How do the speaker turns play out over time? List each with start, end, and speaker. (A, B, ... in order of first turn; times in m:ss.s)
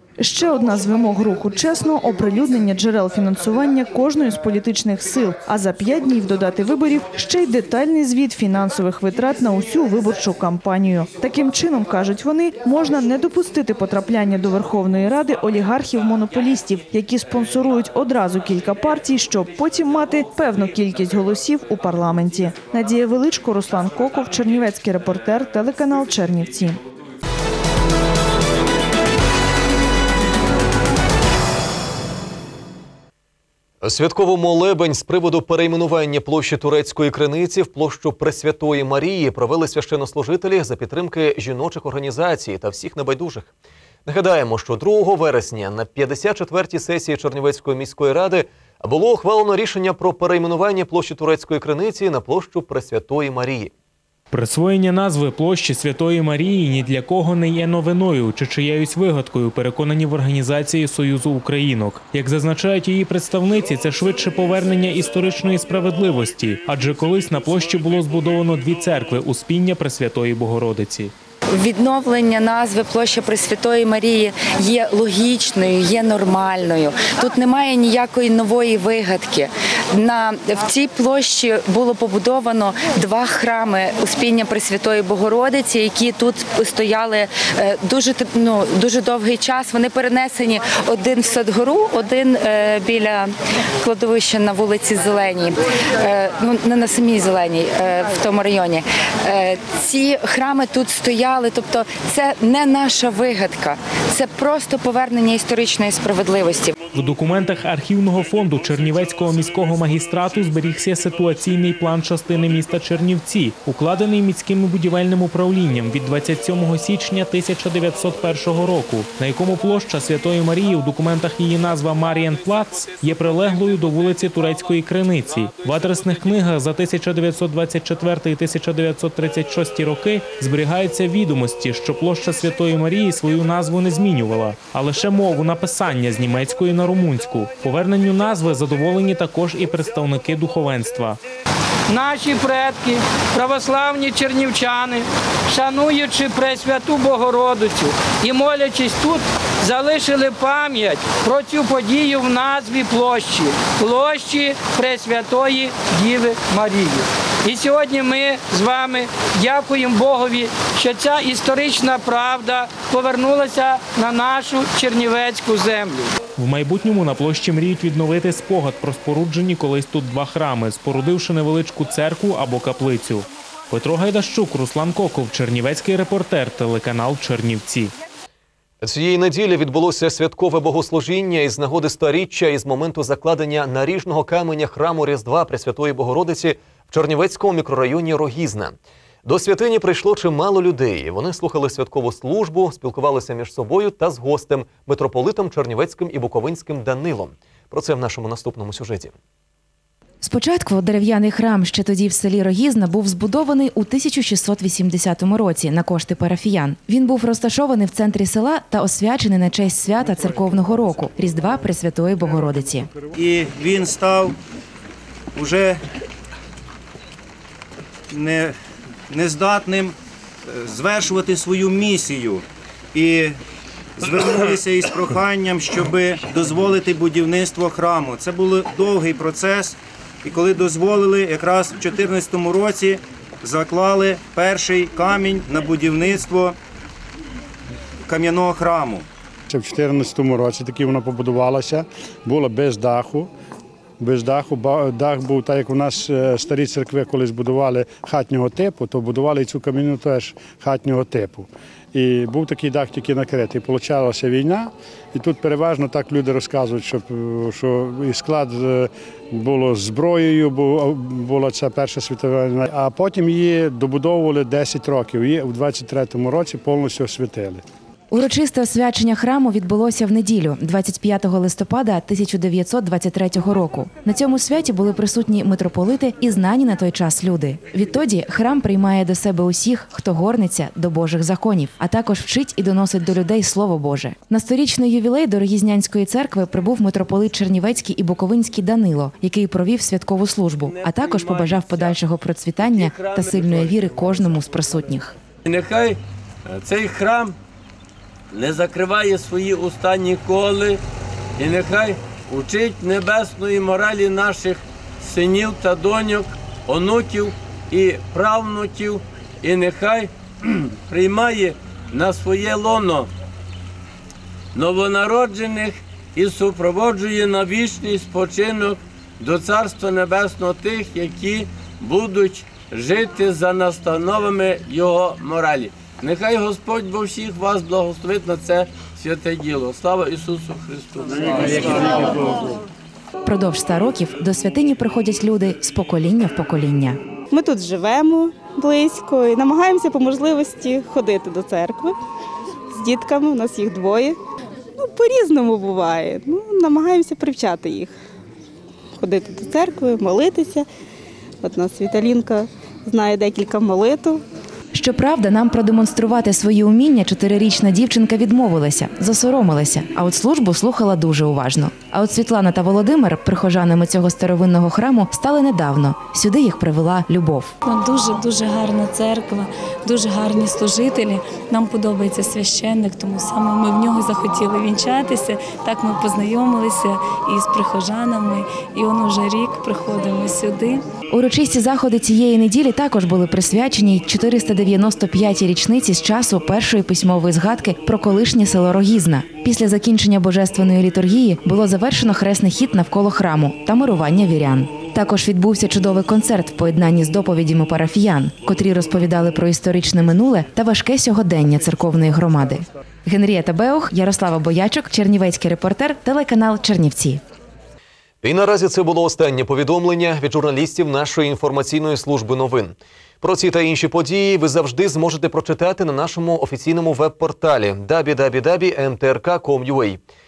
0:00.2-0:26.8 A
0:33.8-0:43.5 B
0:44.0-0:53.7 B
0:54.3-1:11.1 C
1:11.5-1:46.7 D
1:46.9-2:21.2 C
2:21.9-2:46.1 E
2:46.4-2:57.9 C
2:58.8-3:19.1 B
3:20.2-3:32.9 F
3:30.0-3:31.5 G
3:32.2-3:33.1 G
3:33.1-3:34.4 H
3:35.3-3:35.8 H
3:38.1-3:38.6 H
3:39.1-3:40.0 H
3:40.5-3:43.4 H
3:44.0-3:56.6 H
3:58.1-3:59.1 H
3:59.5-4:03.3 G
4:04.0-4:27.6 G
4:28.1-4:55.2 F
4:50.6-4:52.0 I
4:52.6-4:54.6 I
4:55.4-4:57.4 I
4:58.3-5:00.8 I
5:01.4-5:13.1 I
5:14.5-5:32.4 I
5:33.2-5:37.0 F
5:37.3-5:42.0 J
5:42.7-5:44.2 J
5:44.8-5:48.0 J
5:49.0-5:50.7 J
5:51.4-5:54.2 J
5:54.7-6:07.6 F
6:07.6-6:20.8 K
6:21.1-6:47.2 F
6:48.2-7:00.0 B